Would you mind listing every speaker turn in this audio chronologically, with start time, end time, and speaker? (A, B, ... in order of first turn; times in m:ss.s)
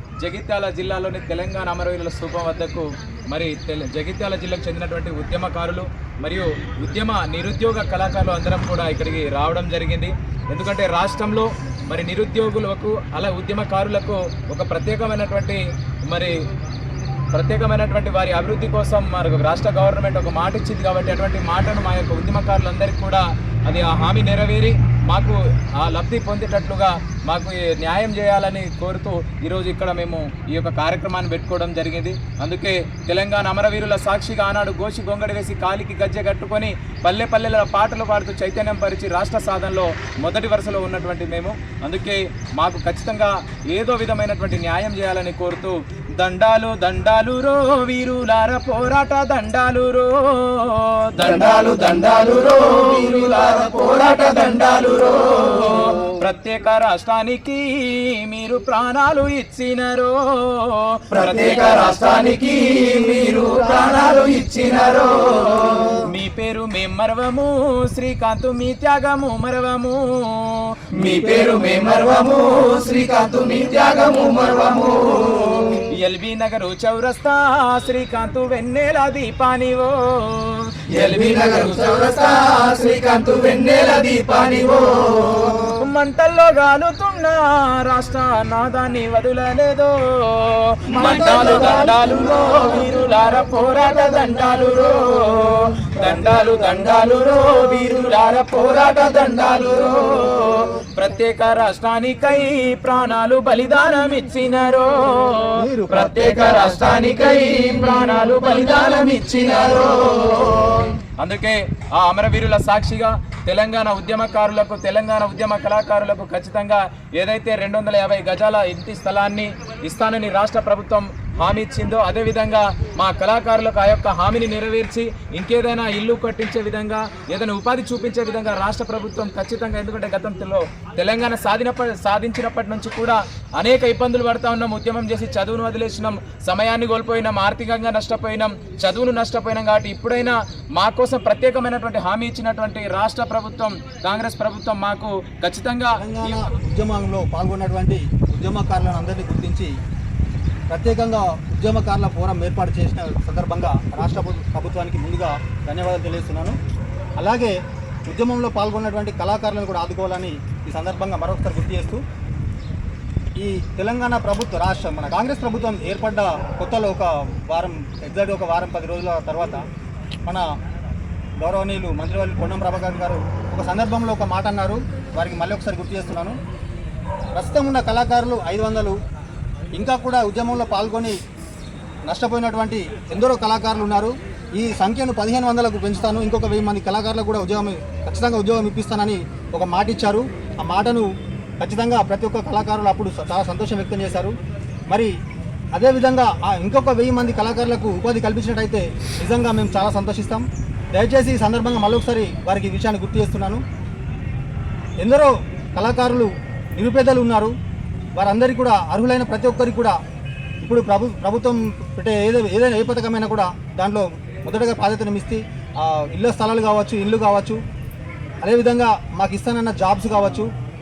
0:00.2-0:16.4 A
0:17.3-1:02.9 A
0:51.2-0:55.9 B
1:01.1-1:06.0 B
1:05.9-1:11.1 A
1:11.0-1:15.8 B
1:15.8-1:20.9 A
1:20.9-1:25.7 B
1:25.7-2:26.4 A
1:30.9-1:32.6 B
1:46.2-1:46.6 B
2:26.0-2:29.7 C
2:30.7-2:36.6 C
2:37.2-2:42.0 C
2:43.4-2:49.6 C
2:51.4-2:56.4 C
2:57.4-2:59.0 C
2:59.7-3:01.2 C
3:02.1-3:14.3 C
3:14.9-3:15.1 C
3:15.7-3:23.6 C
3:25.0-3:27.5 C
3:28.2-3:30.0 C
3:30.6-3:37.6 C
3:38.4-3:40.5 C